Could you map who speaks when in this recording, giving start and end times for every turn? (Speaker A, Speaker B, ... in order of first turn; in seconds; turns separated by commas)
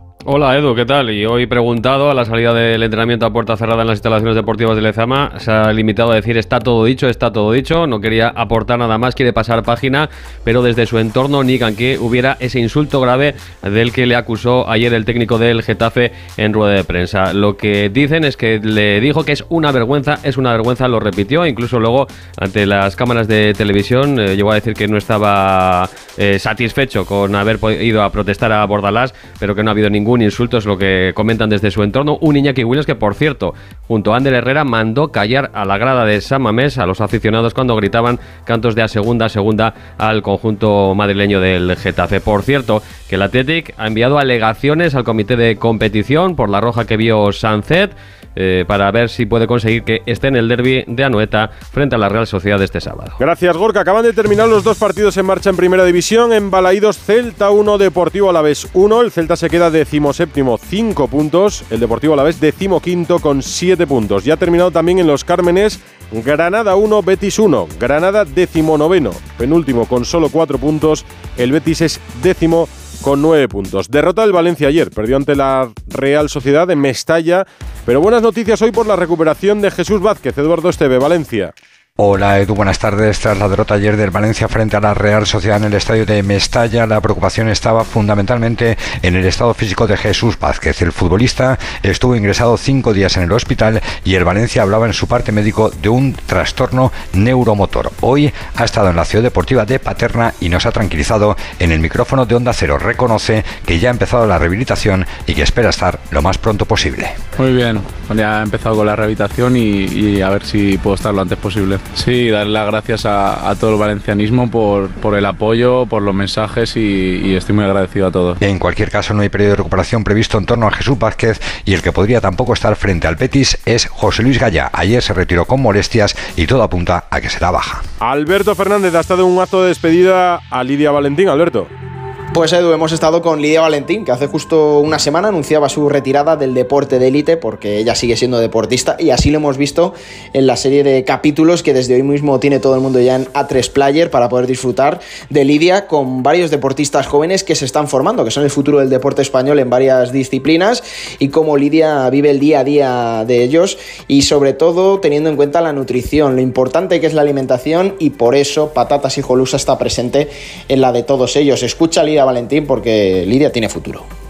Speaker A: 0.2-53.1, Speaker B: 53.2-81.5, Speaker C: 82.0-107.1, Speaker D: 107.4-118.3, Speaker C: 118.4-127.8, Speaker B: 128.0-131.7, Speaker E: 132.3-164.1